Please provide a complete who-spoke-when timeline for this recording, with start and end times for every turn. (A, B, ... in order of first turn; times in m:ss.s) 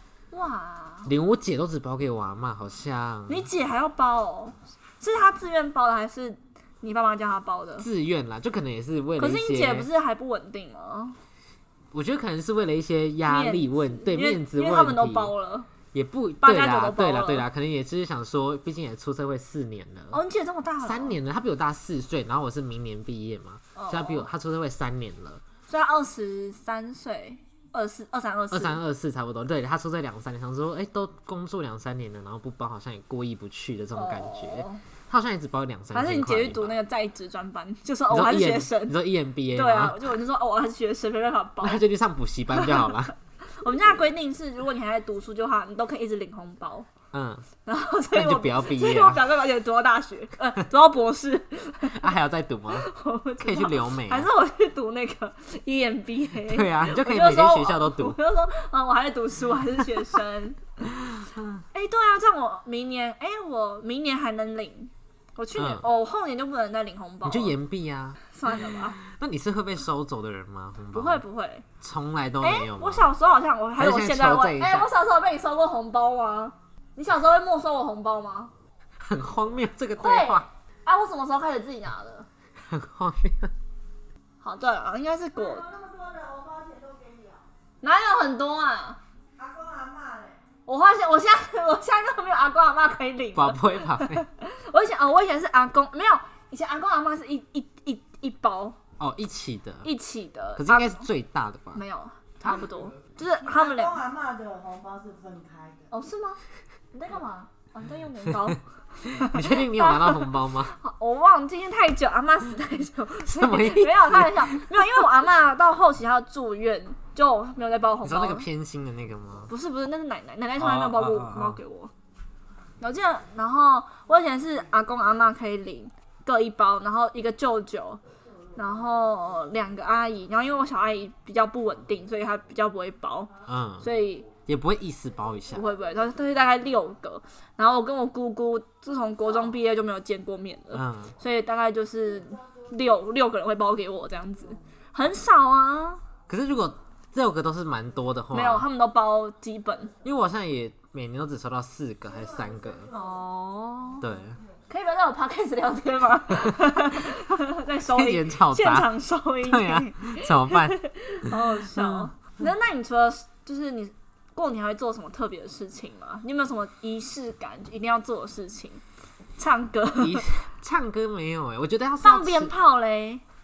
0:00.3-0:01.1 A
0:01.1-0:03.5 B
0:03.3-0:07.9 A
0:07.8-0:09.9 B
0:09.2-0:11.2 A
0:11.9-0:15.3 B
0:13.2-0:15.7 A
0:15.9-0:20.2 B
0:16.4-0:17.5 A
0:20.1-0:21.2 A
0:20.8-0:25.4 B
0:23.8-0:24.3 A
0:25.7-0:28.8 A
0:28.5-0:36.8 B
0:34.0-0:34.8 A
0:35.9-0:39.0 A
0:38.1-0:40.0 B
0:39.5-0:41.8 A
0:41.6-0:43.1 B
0:42.5-0:46.9 A
0:47.1-0:47.5 B
0:47.6-0:52.1 A
0:48.1-0:49.2 B
0:51.9-0:52.9 B
0:52.7-1:00.6 A
0:53.4-0:54.3 B
0:56.4-0:58.2 B
1:01.0-1:01.6 B
1:01.7-1:07.5 A
1:05.6-1:05.9 B
1:07.2-1:11.2 B
1:08.2-1:09.0 A
1:10.9-1:11.7 A
1:11.8-1:13.1 B
1:12.4-1:18.5 A
1:13.8-1:14.9 B
1:19.0-1:20.5 B
1:20.0-1:22.3 A
1:22.7-1:23.5 B
1:24.4-1:25.7 A
1:25.4-1:27.4 C
1:27.8-1:29.0 A
1:29.4-1:30.4 C
1:30.7-1:38.8 A
1:33.3-1:34.2 B
1:39.0-1:39.9 B
1:39.8-1:41.1 A
1:40.6-1:41.8 B
1:41.7-1:44.0 A
1:43.4-1:45.9 C
1:45.9-1:46.4 A
1:46.9-1:58.5 A
1:49.1-1:50.8 B
1:53.3-1:54.7 B
1:58.0-1:59.5 B
1:59.5-2:01.9 A
2:00.6-2:01.6 B
2:02.8-2:08.0 A
2:08.6-2:14.3 A
2:13.5-2:13.9 B
2:14.4-2:15.7 B
2:15.5-2:26.0 A
2:20.7-2:21.1 B
2:26.3-2:28.7 B
2:28.3-2:29.9 A
2:30.0-2:32.9 B
2:32.9-2:34.0 A
2:34.0-2:34.4 B
2:34.7-2:48.8 A
2:37.9-2:42.1 B
2:49.4-2:50.2 A
2:50.0-2:52.6 B
2:52.0-2:53.2 A